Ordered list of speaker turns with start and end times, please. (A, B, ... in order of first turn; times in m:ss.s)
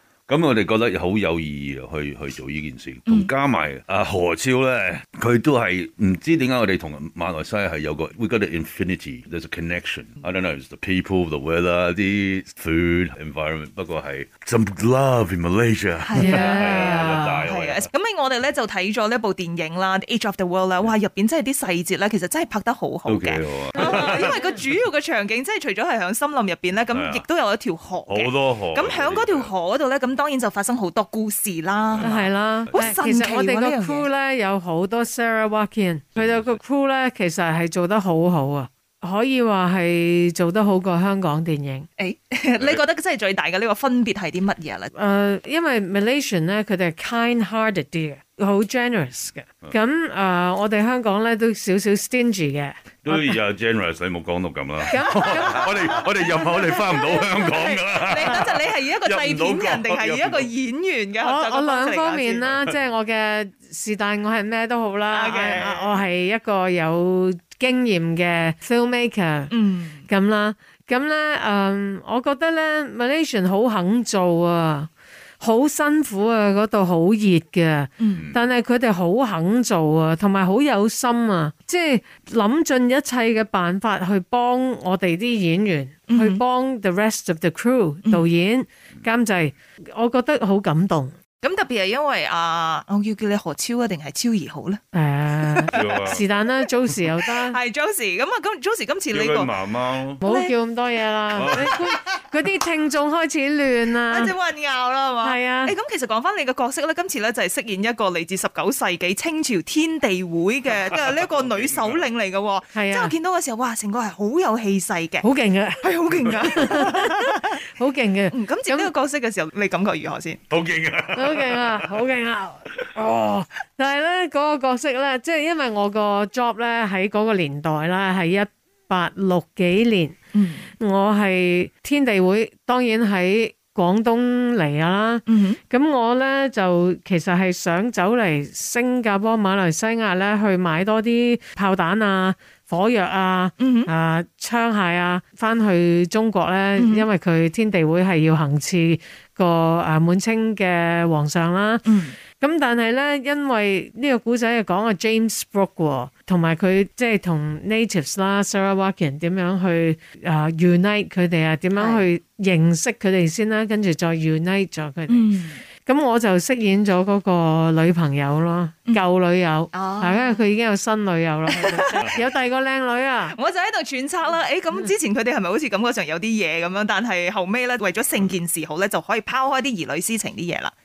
0:00.3-0:17.9 A
0:16.0-0:34.1 B
0:16.2-0:17.3 C
0:23.1-0:24.4 A
0:23.8-0:24.5 C
0:26.9-0:27.2 A
0:28.1-0:29.5 A
0:31.9-0:33.0 A
0:32.0-0:41.9 C
0:36.2-0:36.6 A
0:42.0-0:44.9 B
0:44.9-0:53.4 C
0:53.0-1:00.5 A
0:54.9-0:57.3 C
0:57.1-1:02.4 B
1:01.2-1:09.5 C
1:02.4-1:02.8 A
1:05.1-1:05.9 B
1:09.5-1:10.1 B
1:10.1-1:31.1 C
1:18.0-1:18.3 B
1:18.2-1:18.4 A
1:26.1-1:26.4 B
1:31.4-1:34.8 B
1:34.9-1:37.6 C
1:35.4-1:36.1 B
1:35.7-1:36.2 A
1:37.2-1:39.5 B
1:39.1-1:40.2 A
1:40.2-1:44.3 C
1:40.2-1:40.5 B
1:41.3-1:41.8 A
1:41.5-1:42.1 B
1:44.1-1:55.3 B
1:45.2-1:45.8 C
1:50.9-1:52.0 A
1:52.7-1:53.1 C
1:55.2-1:55.8 C
1:55.8-1:57.6 B
1:56.1-1:56.5 A
1:56.4-1:58.9 C
1:58.3-2:00.4 B
2:00.5-2:02.0 A
2:01.2-2:10.2 C
2:10.3-2:10.7 B
2:10.8-2:45.3 C
2:15.3-2:15.6 B
2:23.6-2:23.9 B
2:26.8-2:27.1 B
2:31.8-2:32.2 B
2:41.8-2:42.1 B
2:45.1-2:45.6 B
2:45.8-2:53.4 C
2:49.7-2:50.4 B
2:51.5-2:52.2 B
2:53.3-3:00.7 B